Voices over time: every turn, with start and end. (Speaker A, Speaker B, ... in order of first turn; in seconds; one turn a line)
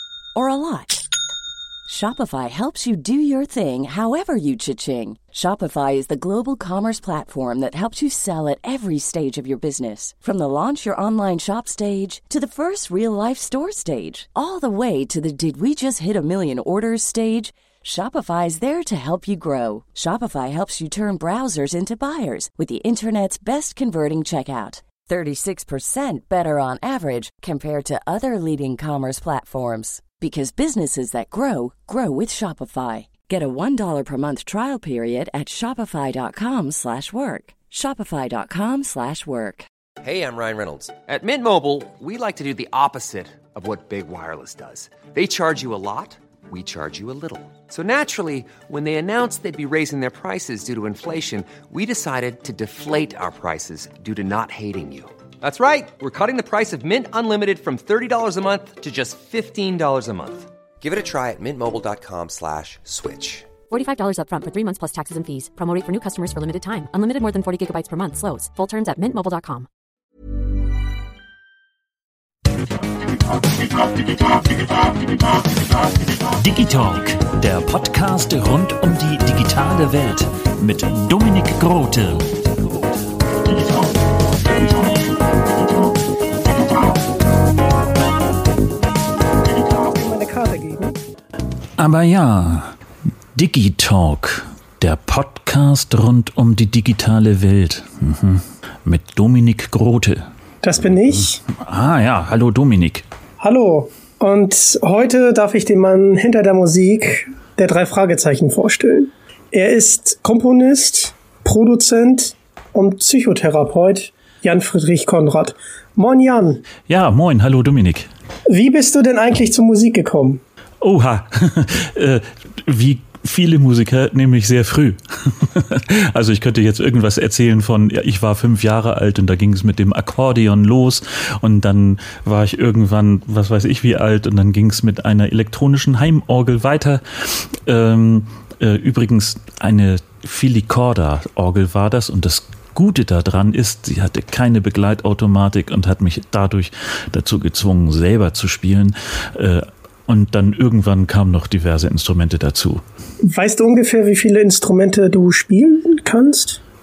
Speaker A: 0.3-1.0
Speaker A: 1.9-39.7
Speaker B: 40.0-63.5
Speaker C: 63.7-69.7
Speaker D: 74.2-82.8
Speaker D: 83.5-85.1
Speaker E: 89.6-91.0
Speaker D: 91.8-92.7
Speaker D: 93.3-100.3
Speaker E: 100.6-101.4
Speaker D: 101.5-103.0
Speaker E: 103.4-116.6
Speaker D: 116.8-118.1
Speaker E: 118.5-120.4
Speaker D: 120.8-152.8
Speaker E: 153.2-156.6